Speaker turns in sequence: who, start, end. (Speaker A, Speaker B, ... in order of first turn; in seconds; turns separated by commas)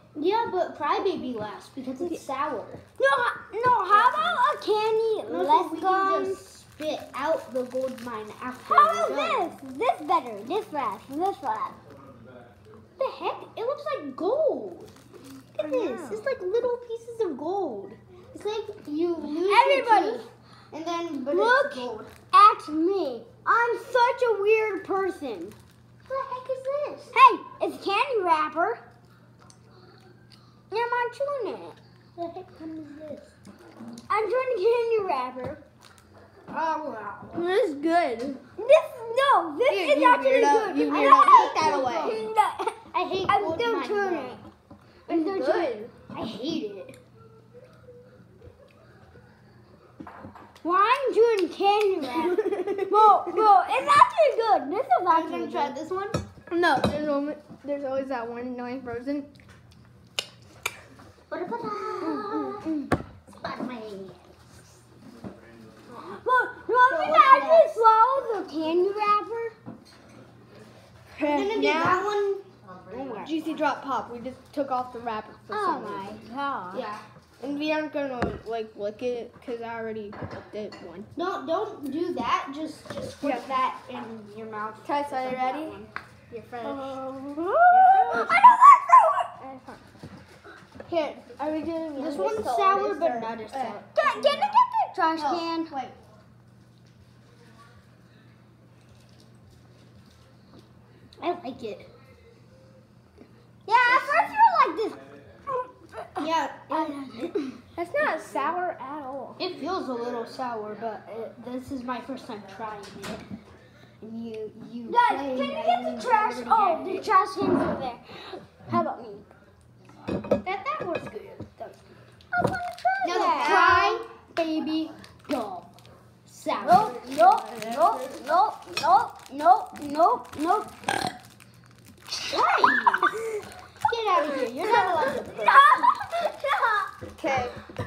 Speaker A: 0.1-2.8, Speaker B: 3.0-6.4, Speaker A: 3.9-4.4, Speaker A: 5.2-9.5, Speaker B: 8.7-11.8, Speaker A: 13.0-14.9, Speaker A: 15.6-22.1, Speaker C: 15.6-16.3, Speaker B: 19.4-20.3, Speaker B: 21.3-25.6, Speaker A: 26.1-27.1, Speaker B: 27.1-28.8, Speaker B: 30.7-31.8, Speaker A: 32.2-33.4, Speaker B: 34.1-35.6, Speaker A: 36.5-37.4, Speaker C: 37.3-38.4, Speaker B: 38.6-44.4, Speaker C: 39.7-42.3, Speaker A: 40.9-42.2, Speaker A: 42.9-44.4, Speaker B: 45.1-45.9, Speaker C: 45.1-45.9, Speaker A: 46.1-47.0, Speaker B: 50.6-55.8, Speaker A: 52.1-52.8, Speaker A: 55.1-56.2, Speaker C: 56.5-59.3, Speaker B: 61.3-62.7, Speaker A: 61.9-62.4, Speaker C: 62.0-62.4, Speaker B: 63.4-64.1, Speaker A: 63.7-64.0, Speaker B: 66.1-69.6, Speaker A: 66.9-67.8, Speaker C: 67.1-67.6, Speaker C: 71.1-72.1, Speaker A: 71.2-72.4, Speaker B: 72.9-73.3, Speaker C: 73.2-76.1, Speaker B: 75.5-76.9, Speaker A: 76.7-77.0, Speaker C: 77.4-81.1, Speaker A: 81.2-85.9, Speaker C: 83.2-83.5, Speaker C: 84.8-85.8, Speaker C: 86.3-88.4, Speaker B: 86.7-87.0, Speaker B: 87.7-89.3, Speaker C: 89.4-89.8, Speaker C: 90.8-94.6, Speaker A: 92.0-93.9, Speaker B: 93.9-95.7, Speaker C: 95.2-96.0, Speaker A: 101.2-101.9, Speaker B: 103.7-107.6, Speaker A: 103.9-104.3, Speaker A: 106.2-107.4, Speaker C: 107.8-109.4, Speaker A: 109.4-113.2, Speaker A: 114.0-117.1, Speaker B: 114.8-119.3, Speaker A: 120.4-121.8, Speaker B: 122.3-123.9, Speaker A: 123.0-127.0, Speaker C: 123.1-124.0, Speaker B: 126.6-130.7, Speaker C: 126.9-127.5, Speaker A: 132.2-133.2, Speaker A: 133.9-135.6, Speaker B: 134.2-137.0, Speaker C: 137.2-137.6